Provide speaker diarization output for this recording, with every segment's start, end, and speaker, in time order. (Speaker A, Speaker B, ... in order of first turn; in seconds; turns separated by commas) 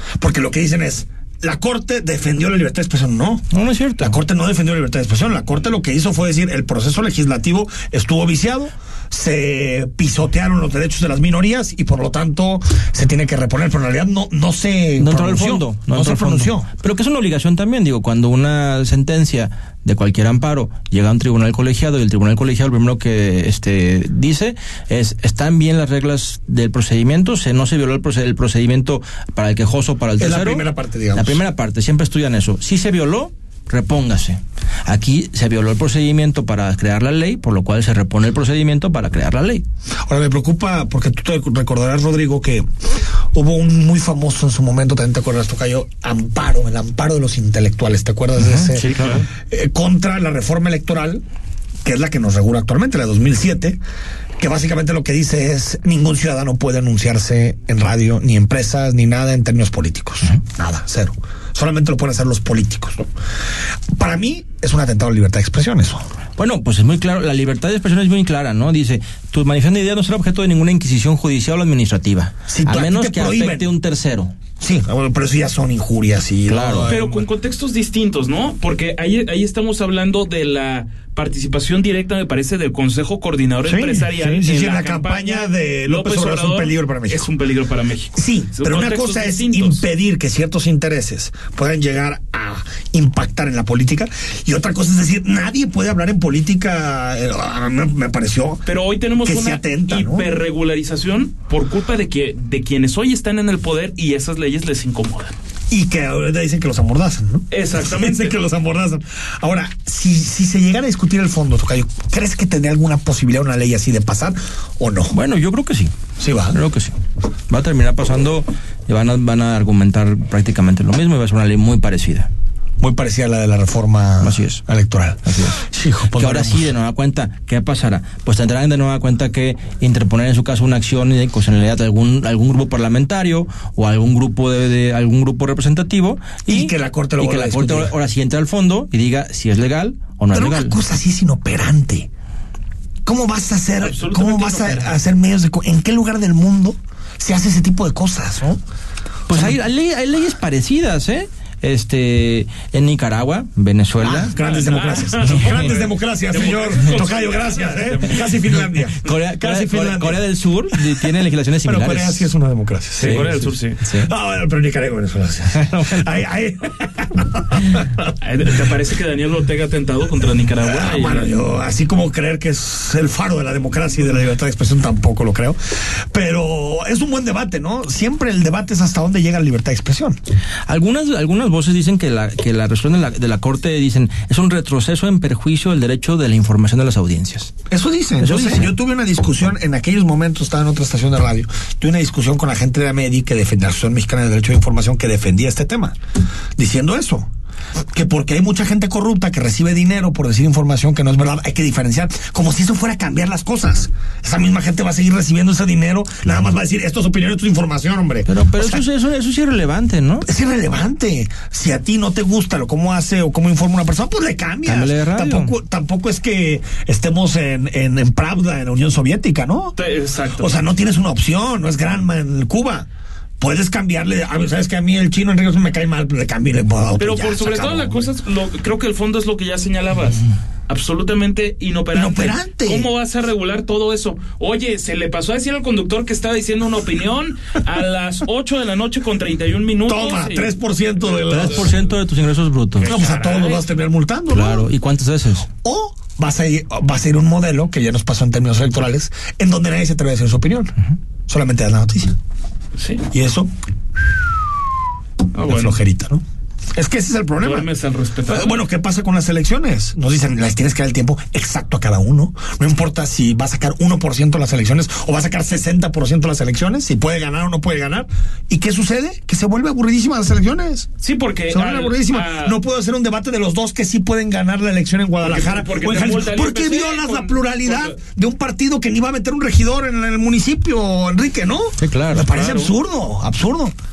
Speaker A: 0.2-3.5, Speaker B: 3.5-4.2, Speaker A: 4.0-16.7, Speaker B: 15.0-39.6, Speaker A: 30.2-31.4, Speaker A: 40.1-42.7, Speaker A: 43.3-51.2, Speaker B: 48.4-49.2, Speaker C: 48.8-49.2, Speaker A: 51.8-53.8, Speaker A: 54.4-63.1, Speaker A: 63.9-66.1, Speaker B: 66.4-74.3, Speaker A: 72.5-73.7, Speaker A: 74.6-77.3, Speaker B: 76.5-76.9, Speaker C: 76.9-89.8, Speaker A: 83.6-87.3, Speaker A: 88.2-98.6, Speaker C: 98.7-105.3, Speaker A: 99.2-100.3, Speaker A: 105.7-115.2, Speaker C: 107.5-108.4, Speaker B: 115.1-115.9, Speaker A: 116.2-116.6, Speaker B: 116.5-116.9, Speaker B: 117.5-122.3, Speaker A: 122.8-126.7, Speaker B: 124.2-124.6, Speaker B: 125.2-125.5, Speaker B: 126.1-140.8, Speaker A: 136.5-137.9, Speaker A: 140.3-142.1, Speaker A: 143.1-148.6, Speaker C: 143.8-145.0, Speaker B: 149.3-155.5, Speaker A: 154.0-168.1, Speaker C: 154.3-158.4, Speaker B: 158.6-162.2, Speaker C: 163.0-163.8, Speaker B: 163.0-164.1, Speaker B: 165.6-166.1, Speaker C: 168.2-171.3, Speaker A: 170.6-180.2, Speaker B: 180.7-187.5, Speaker A: 187.7-196.0, Speaker B: 188.2-188.7, Speaker A: 196.6-197.3, Speaker A: 197.9-208.9, Speaker B: 208.3-210.3, Speaker A: 210.2-219.8, Speaker B: 214.7-215.5, Speaker C: 219.8-220.6, Speaker A: 220.4-222.9, Speaker A: 223.4-228.1, Speaker C: 227.0-241.9, Speaker A: 231.9-232.9, Speaker A: 239.9-241.8, Speaker B: 241.3-243.0, Speaker C: 242.8-243.7, Speaker A: 242.9-244.7, Speaker B: 244.3-245.5, Speaker A: 245.5-250.7, Speaker A: 251.3-252.2, Speaker C: 252.8-253.1, Speaker A: 253.1-253.5, Speaker C: 255.3-255.8, Speaker A: 255.4-256.2, Speaker A: 256.8-257.7, Speaker C: 257.4-258.6, Speaker A: 258.3-270.9, Speaker C: 271.0-272.6, Speaker A: 271.5-283.8, Speaker C: 275.2-278.0, Speaker B: 281.8-282.3, Speaker C: 282.3-282.7